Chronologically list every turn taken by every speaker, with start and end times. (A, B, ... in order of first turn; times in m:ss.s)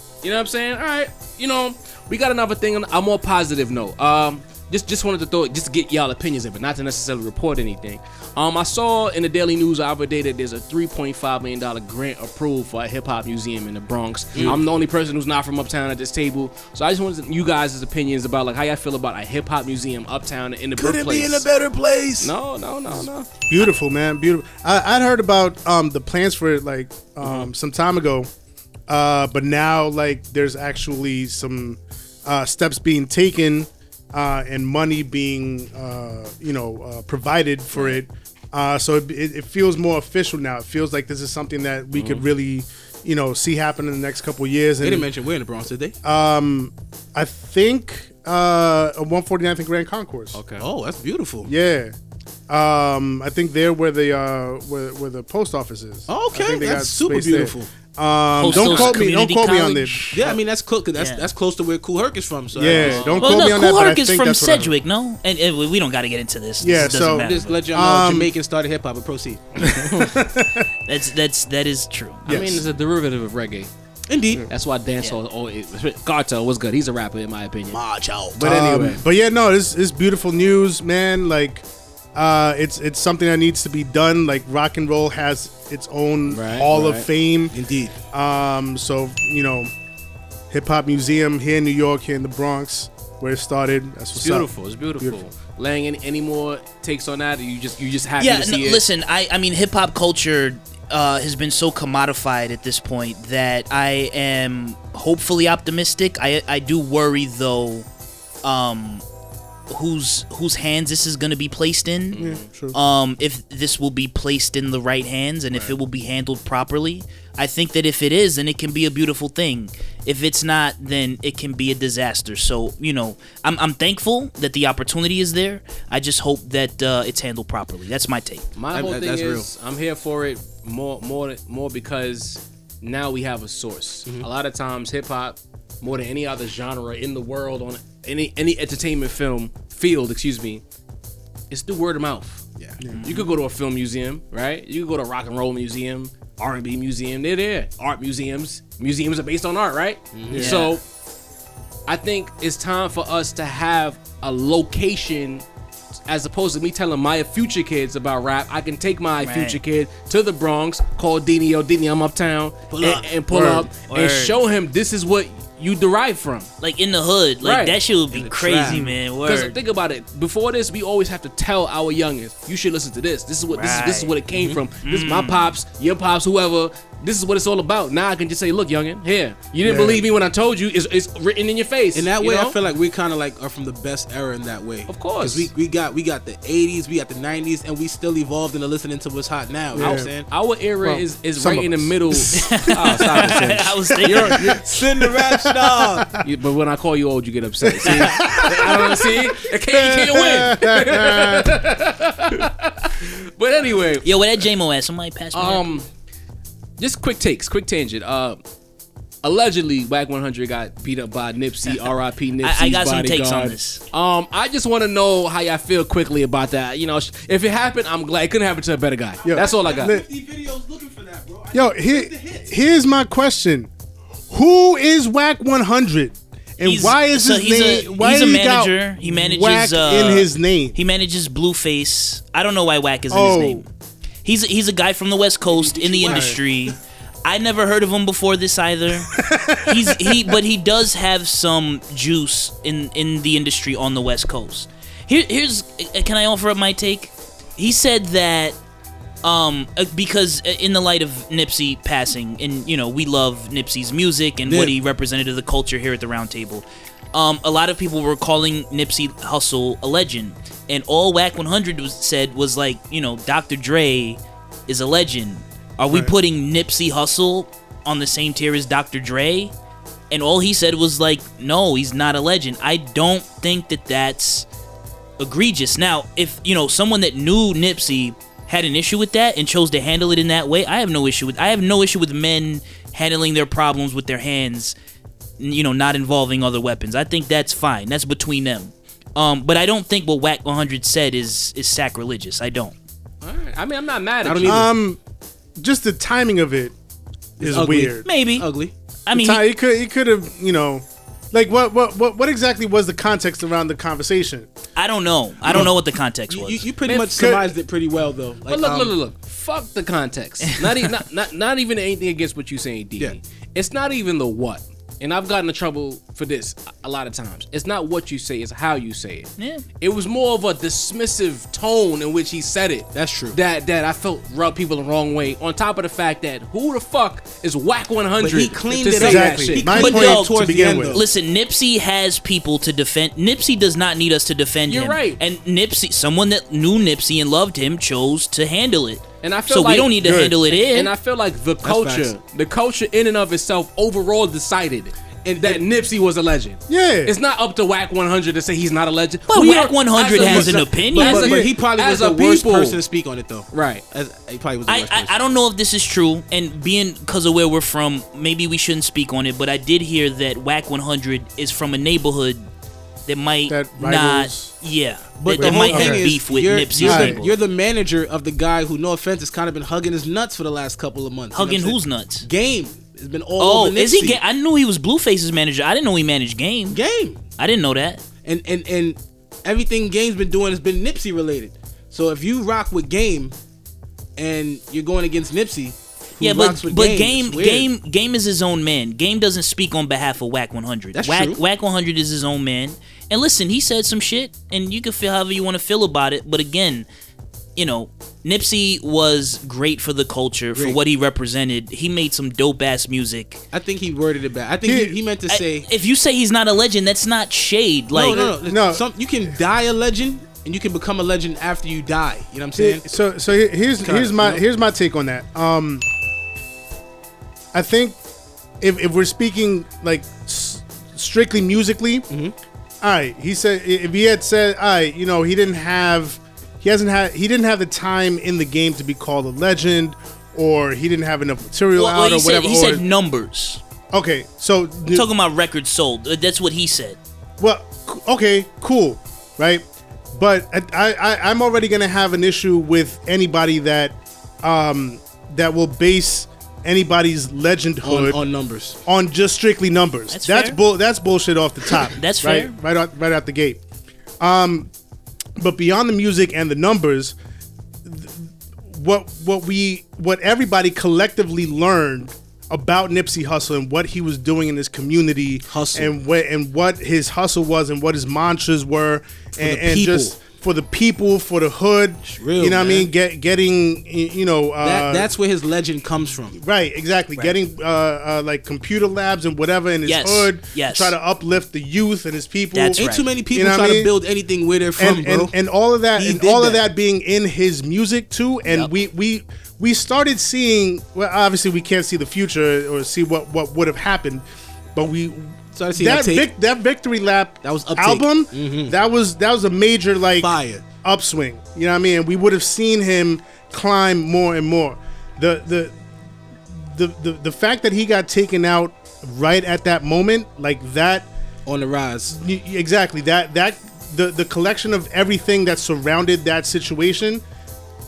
0:00.2-0:21.5 A
0:14.3-0:14.6 B
0:20.8-0:22.3 B
0:22.2-0:23.3 A
0:23.5-0:28.3 C
0:27.2-0:27.5 A
0:28.9-0:45.1 C
0:41.9-0:42.2 A
0:44.8-0:45.9 B
0:46.0-0:50.4 C
0:50.3-0:50.6 A
0:50.6-0:51.5 B
0:51.4-0:51.9 C
0:52.5-1:00.1 C
0:56.1-0:57.7 B
0:58.4-1:00.3 D
0:58.5-0:59.0 B
1:00.1-1:03.1 B
1:01.0-1:01.2 D
1:02.5-1:04.7 C
1:02.6-1:03.4 A
1:03.2-1:07.6 D
1:06.6-1:08.3 C
1:07.1-1:09.7 B
1:09.6-1:10.2 A
1:09.6-1:10.7 C
1:10.9-1:12.4 D
1:12.2-1:12.6 C
1:12.2-1:13.7 A
1:14.1-1:14.4 B
1:14.5-1:17.8 A
1:17.7-1:19.0 B
1:18.4-1:27.5 C
1:18.5-1:18.8 A
1:26.3-1:27.1 A
1:27.5-1:28.0 B
1:28.1-1:29.7 C
1:30.5-1:35.2 C
1:34.2-1:38.8 A
1:38.2-1:47.8 D
1:48.4-1:49.0 D
1:49.7-1:52.2 D
1:52.1-1:52.4 A
1:52.2-1:52.8 C
1:52.7-2:08.4 D
2:08.6-2:20.6 A
2:08.7-2:09.5 B
2:21.5-2:22.5 A
2:22.8-2:23.0 C
2:22.9-2:23.3 D
2:23.0-2:30.8 A
2:30.1-2:30.6 B
2:30.3-2:30.8 D
2:31.9-2:35.4 A
2:36.1-2:46.5 A
2:39.2-2:39.6 D
2:42.7-2:43.1 B
2:43.3-2:43.6 C
2:43.4-2:44.4 D
2:46.6-2:49.5 D
2:47.4-2:47.8 A
2:48.1-2:48.8 B
2:49.2-3:02.6 A
2:53.5-2:54.1 D
2:54.3-2:54.6 B
2:54.8-2:55.5 D
2:59.6-3:00.0 C
3:01.9-3:10.3 B
3:04.9-3:05.5 A
3:09.7-3:10.1 C
3:09.7-3:14.4 A
3:10.8-3:13.4 C
3:12.3-3:14.4 D
3:14.0-3:16.1 B
3:14.1-3:16.2 C
3:16.2-3:24.2 A
3:17.6-3:21.6 C
3:17.8-3:19.0 B
3:24.0-3:25.7 D
3:25.3-3:25.9 A
3:26.8-3:28.4 A
3:29.2-3:39.9 A
3:32.4-3:33.8 D
3:39.2-3:42.5 B
3:39.2-3:40.0 C
3:41.5-3:43.7 C
3:44.3-3:50.8 C
3:46.6-3:53.7 D
3:53.1-3:53.6 C
3:54.2-4:08.6 D
3:55.5-3:56.5 B
3:56.0-3:56.4 C
3:59.1-4:00.4 C
4:09.2-4:29.5 D
4:14.5-4:14.7 B
4:30.1-4:34.4 D
4:35.2-4:44.7 D
4:45.4-4:52.7 D
4:53.2-4:54.6 A
4:54.2-4:54.7 B
4:54.4-4:55.0 C
4:55.6-4:56.7 C
4:57.4-4:58.1 C
4:57.4-4:58.7 B
4:58.0-4:58.4 D
4:59.0-4:59.4 D
4:59.1-5:04.5 C
5:04.8-5:06.7 D
5:06.3-5:08.9 B
5:06.8-5:07.2 A
5:07.1-5:07.5 C
5:08.5-5:29.8 A
5:19.4-5:19.6 D
5:22.9-5:23.4 B
5:28.2-5:31.0 B
5:29.0-5:31.0 C
5:29.7-5:40.9 D
5:34.7-5:35.2 A
5:39.2-5:52.8 A
5:40.0-5:40.4 C
5:41.6-5:42.1 B
5:45.2-5:45.6 B
5:46.7-5:47.1 C
5:49.3-5:51.3 D
5:50.1-5:55.1 B
5:51.1-5:51.5 C
5:53.5-5:53.8 A
5:54.7-6:02.4 D
6:03.0-6:07.3 D
6:03.5-6:04.5 C
6:05.2-6:14.2 B
6:05.3-6:06.1 C
6:06.8-6:07.2 C
6:11.3-6:12.2 D
6:13.4-6:16.8 D
6:16.7-6:17.2 B
6:17.4-6:18.0 D
6:18.2-6:23.3 B
6:24.2-6:27.7 B
6:26.2-6:36.9 D
6:30.9-6:31.4 B
6:37.6-6:43.4 D
6:43.5-6:45.7 B
6:44.6-6:45.0 C
6:45.3-6:48.3 D
6:47.9-6:52.8 B
6:48.1-6:48.8 C
6:52.6-6:55.8 C
6:53.8-6:54.4 B
6:57.5-6:58.0 C
6:58.6-7:02.1 C
7:02.1-7:02.3 B
7:02.8-7:12.8 C
7:11.7-7:13.6 D
7:13.9-7:15.1 C
7:14.9-7:17.0 D
7:17.4-7:28.2 C
7:27.8-7:28.8 B
7:28.8-7:33.6 C
7:30.1-7:30.6 D
7:32.0-7:32.5 D
7:34.2-7:34.7 C
7:35.4-7:37.1 C
7:37.8-7:55.1 C
7:45.5-7:45.9 B
7:49.4-7:50.1 B
7:52.1-7:52.9 B
7:54.6-7:56.4 B
7:56.4-8:03.9 C
7:59.8-8:00.9 D
8:02.5-8:03.1 D
8:02.8-8:05.3 B
8:04.8-8:20.3 C
8:06.0-8:06.6 B
8:15.5-8:16.3 B
8:17.4-8:18.8 B
8:20.2-8:20.6 B
8:20.8-8:25.8 C
8:26.5-8:31.1 C
8:31.4-8:32.2 B
8:32.1-8:37.2 C